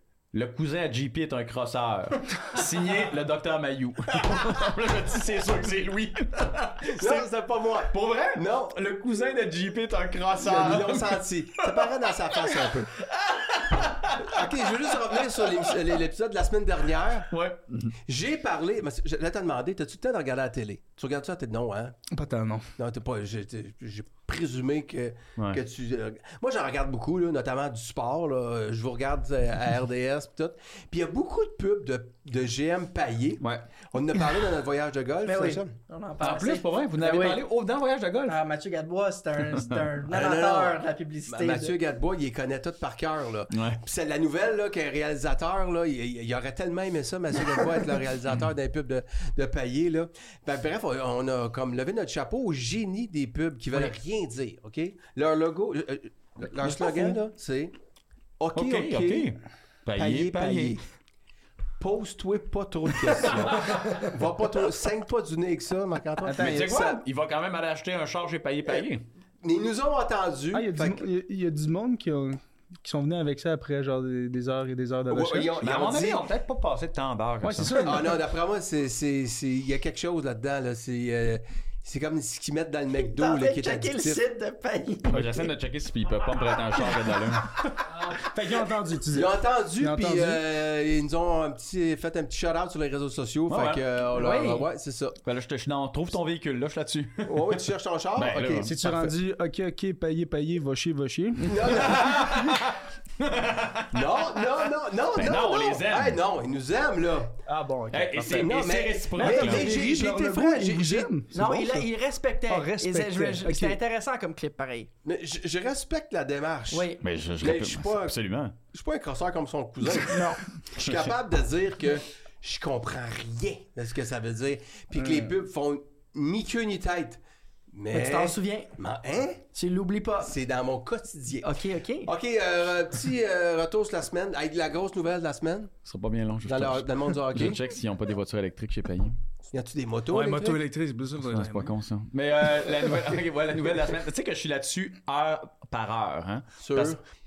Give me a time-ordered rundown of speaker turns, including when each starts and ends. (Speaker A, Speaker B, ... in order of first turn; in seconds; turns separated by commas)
Speaker A: 0.3-7.3, Speaker B: 6.8-8.8, Speaker A: 7.8-15.8, Speaker B: 10.4-13.0, Speaker B: 14.2-17.3, Speaker A: 17.3-17.9, Speaker B: 18.1-22.0, Speaker C: 22.1-22.7, Speaker B: 22.8-35.8, Speaker A: 25.4-25.6, Speaker A: 33.4-33.7, Speaker D: 35.2-37.5, Speaker A: 36.2-38.4, Speaker D: 38.3-41.8, Speaker A: 39.5-39.8, Speaker B: 40.1-57.7, Speaker A: 43.5-43.8, Speaker B: 58.4-59.3, Speaker A: 58.5-60.8, Speaker B: 60.0-60.8, Speaker B: 61.8-67.0, Speaker A: 63.2-63.8, Speaker C: 66.2-66.6, Speaker A: 66.3-69.0, Speaker B: 69.4-71.1, Speaker C: 70.5-75.5, Speaker B: 75.1-76.3, Speaker A: 75.6-78.1, Speaker C: 77.4-78.2, Speaker B: 77.8-84.2, Speaker D: 83.0-85.5, Speaker A: 85.1-87.6, Speaker C: 87.9-90.4, Speaker B: 89.1-95.2, Speaker A: 93.5-93.8, Speaker D: 94.1-94.7, Speaker A: 95.2-97.6, Speaker B: 97.2-99.1, Speaker A: 98.2-98.7, Speaker C: 98.6-101.7, Speaker B: 101.4-102.6, Speaker A: 101.5-106.2, Speaker B: 103.9-107.4, Speaker C: 107.5-108.5, Speaker A: 107.9-109.8, Speaker B: 108.3-111.1, Speaker C: 109.2-111.9, Speaker D: 111.3-114.9, Speaker C: 112.5-113.8, Speaker B: 115.0-118.2, Speaker D: 116.7-117.0, Speaker A: 117.0-118.6, Speaker B: 118.7-129.5, Speaker D: 120.1-120.4, Speaker A: 120.8-121.1, Speaker C: 125.0-125.3, Speaker D: 127.9-128.7, Speaker D: 129.5-130.3, Speaker B: 130.2-135.7, Speaker D: 131.4-132.1, Speaker A: 135.9-139.2, Speaker B: 136.4-137.6, Speaker B: 139.5-140.6, Speaker C: 140.1-141.7, Speaker A: 141.2-147.0, Speaker B: 146.6-147.0